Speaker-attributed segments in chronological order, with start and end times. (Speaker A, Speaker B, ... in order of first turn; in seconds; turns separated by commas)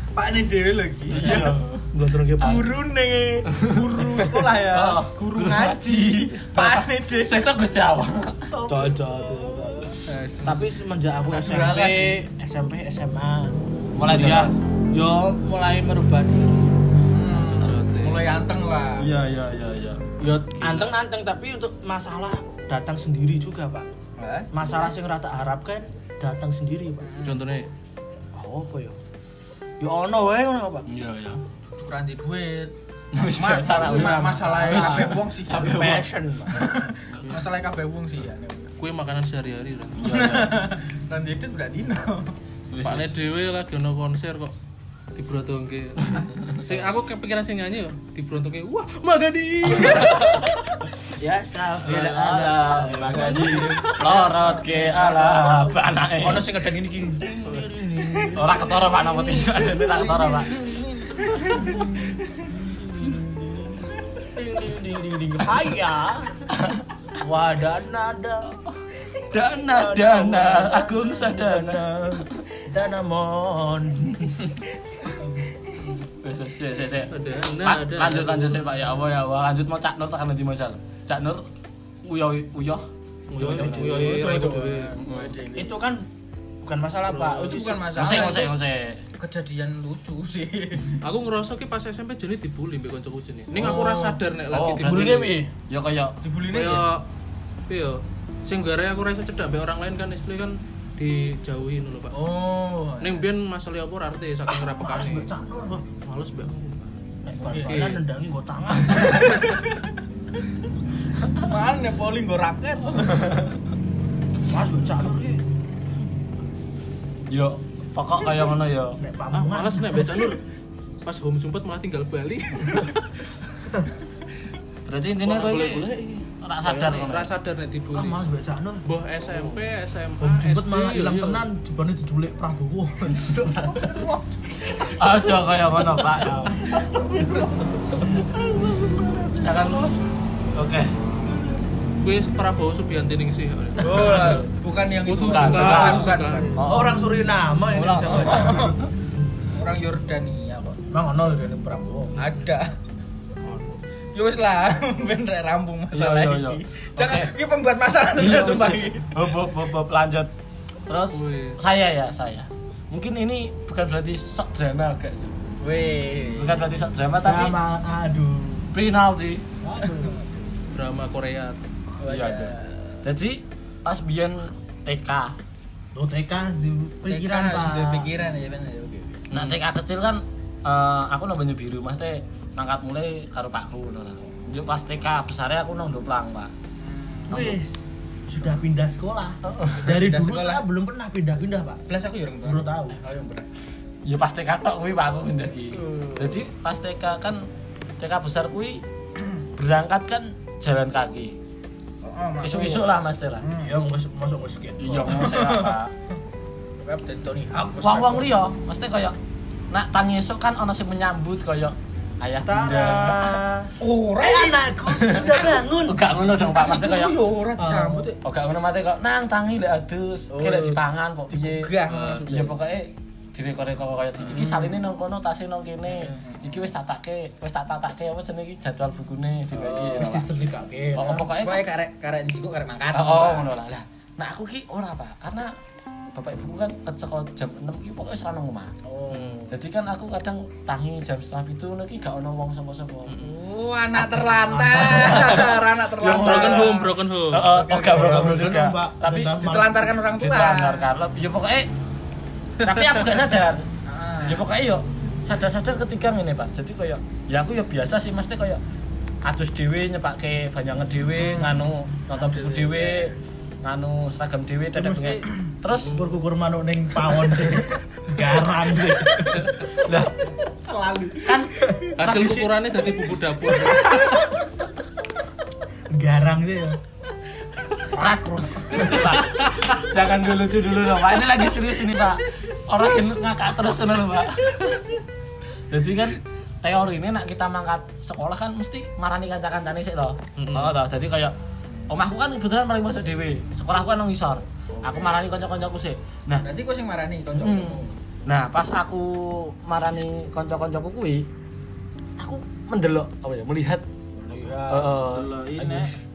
Speaker A: 0.1-1.8, Speaker B: 1.1-1.8, Speaker C: 1.9-2.7, Speaker A: 2.4-7.4, Speaker B: 3.5-8.6, Speaker A: 8.4-9.0, Speaker C: 8.7-16.8, Speaker A: 10.1-10.7, Speaker A: 11.2-12.2, Speaker B: 13.9-14.5, Speaker A: 17.1-19.1, Speaker D: 17.5-18.4, Speaker B: 19.0-20.1, Speaker C: 20.2-23.9, Speaker D: 20.5-20.9, Speaker A: 24.2-24.7, Speaker C: 24.5-27.1, Speaker A: 27.0-27.5, Speaker D: 27.2-27.7, Speaker C: 28.4-29.0, Speaker C: 29.8-30.9, Speaker B: 30.9-31.4, Speaker A: 31.7-38.7, Speaker B: 33.1-36.1, Speaker C: 33.8-36.6, Speaker D: 38.8-40.1, Speaker B: 40.0-40.6, Speaker A: 40.0-42.4, Speaker B: 42.7-43.1, Speaker D: 42.8-44.5, Speaker D: 45.1-50.7, Speaker B: 46.1-46.7, Speaker C: 51.2-66.5, Speaker A: 51.9-53.9, Speaker B: 51.9-56.5, Speaker B: 58.4-60.5, Speaker A: 61.2-62.2, Speaker C: 67.2-68.6, Speaker B: 69.3-72.5, Speaker C: 69.5-74.4, Speaker B: 76.2-81.5, Speaker D: 77.1-78.6, Speaker B: 82.0-84.1, Speaker D: 83.3-85.0, Speaker A: 83.5-85.8, Speaker B: 84.9-85.4, Speaker C: 85.5-86.1, Speaker C: 86.6-88.4, Speaker D: 87.1-87.4, Speaker A: 87.2-88.5, Speaker B: 88.0-89.0, Speaker A: 89.2-91.0, Speaker D: 91.0-95.3, Speaker A: 93.5-94.2, Speaker B: 94.5-96.2, Speaker C: 94.8-95.5, Speaker A: 96.2-96.9, Speaker D: 96.5-97.1, Speaker D: 97.7-102.2, Speaker A: 102.1-103.3, Speaker D: 103.0-105.3, Speaker C: 104.5-105.8, Speaker D: 105.8-106.8, Speaker C: 107.2-109.4, Speaker A: 107.4-107.9, Speaker D: 107.6-108.0, Speaker A: 108.9-109.6, Speaker A: 111.4-113.3, Speaker C: 114.5-115.4, Speaker B: 117.3-119.0, Speaker C: 119.0-120.3, Speaker D: 119.3-120.4, Speaker D: 121.0-123.1, Speaker B: 124.9-125.9, Speaker D: 125.2-128.2, Speaker B: 126.4-127.3, Speaker C: 127.9-128.8, Speaker D: 128.8-131.4, Speaker C: 130.2-134.2, Speaker A: 133.8-134.2, Speaker B: 134.8-136.6, Speaker A: 136.6-139.4, Speaker B: 139.4-140.0, Speaker B: 140.5-140.9, Speaker D: 142.0-144.5, Speaker A: 143.8-146.6, Speaker D: 145.0-146.6, Speaker B: 145.2-147.0, Speaker C: 146.6-148.8, Speaker B: 147.7-148.8, Speaker A: 148.1-148.9, Speaker A: 149.5-150.8, Speaker C: 150.9-152.2, Speaker A: 152.2-152.8, Speaker D: 153.4-153.8, Speaker A: 154.1-159.2, Speaker B: 155.9-157.3, Speaker B: 158.2-160.3, Speaker B: 160.9-165.4, Speaker D: 161.1-161.6, Speaker A: 165.6-166.7, Speaker B: 166.3-167.6, Speaker C: 167.2-168.7, Speaker B: 168.7-169.4, Speaker C: 169.6-170.2, Speaker D: 170.7-171.6, Speaker A: 172.0-173.0, Speaker B: 172.1-175.4, Speaker C: 175.9-178.1, Speaker A: 177.1-179.3, Speaker D: 179.3-179.6, Speaker B: 179.3-186.5, Speaker A: 186.8-187.6, Speaker C: 187.3-191.9, Speaker B: 189.5-189.8, Speaker A: 189.8-190.6, Speaker A: 191.9-193.5, Speaker C: 192.4-193.0, Speaker B: 194.1-197.4, Speaker A: 195.7-196.4, Speaker B: 198.0-198.8, Speaker B: 199.6-201.3, Speaker A: 202.0-203.8, Speaker B: 202.4-203.4, Speaker C: 203.6-205.2, Speaker B: 204.8-205.9, Speaker A: 205.0-205.8, Speaker A: 206.8-208.3, Speaker B: 207.8-209.2, Speaker B: 209.7-213.4, Speaker C: 212.4-216.0, Speaker A: 213.8-214.7, Speaker B: 215.0-217.2, Speaker A: 216.4-218.2, Speaker C: 217.6-218.1, Speaker B: 218.2-221.7, Speaker A: 220.3-222.6, Speaker D: 221.9-222.3, Speaker B: 222.3-230.3, Speaker A: 224.2-224.9, Speaker A: 226.0-226.6, Speaker A: 229.6-230.0, Speaker C: 229.9-231.3, Speaker B: 230.9-231.7, Speaker A: 231.3-233.5, Speaker B: 232.9-235.5, Speaker B: 236.1-238.7, Speaker C: 238.8-239.5, Speaker D: 239.1-239.4, Speaker B: 239.5-243.2, Speaker D: 243.1-243.3, Speaker A: 243.2-246.9, Speaker B: 243.9-249.3, Speaker C: 244.5-245.4, Speaker D: 246.0-247.5, Speaker C: 247.5-250.0, Speaker A: 247.8-248.3, Speaker A: 249.3-250.9, Speaker B: 250.2-251.7, Speaker B: 252.6-253.7, Speaker A: 253.8-254.5, Speaker B: 254.2-258.6, Speaker B: 259.3-266.0, Speaker A: 261.2-261.5, Speaker D: 262.2-262.9, Speaker C: 264.8-265.3, Speaker D: 265.8-266.1, Speaker C: 265.8-269.6, Speaker B: 269.8-270.1, Speaker A: 270.5-271.4, Speaker B: 271.2-272.5, Speaker D: 272.0-274.1, Speaker C: 275.9-276.8, Speaker B: 277.9-284.9, Speaker B: 285.7-291.3, Speaker D: 290.4-290.7, Speaker A: 291.7-291.9, Speaker B: 291.9-296.4, Speaker A: 294.8-295.2, Speaker A: 296.4-298.0, Speaker B: 297.4-301.3, Speaker B: 302.2-303.9, Speaker C: 304.2-305.0, Speaker B: 304.7-305.3, Speaker A: 305.0-305.9, Speaker C: 305.6-305.9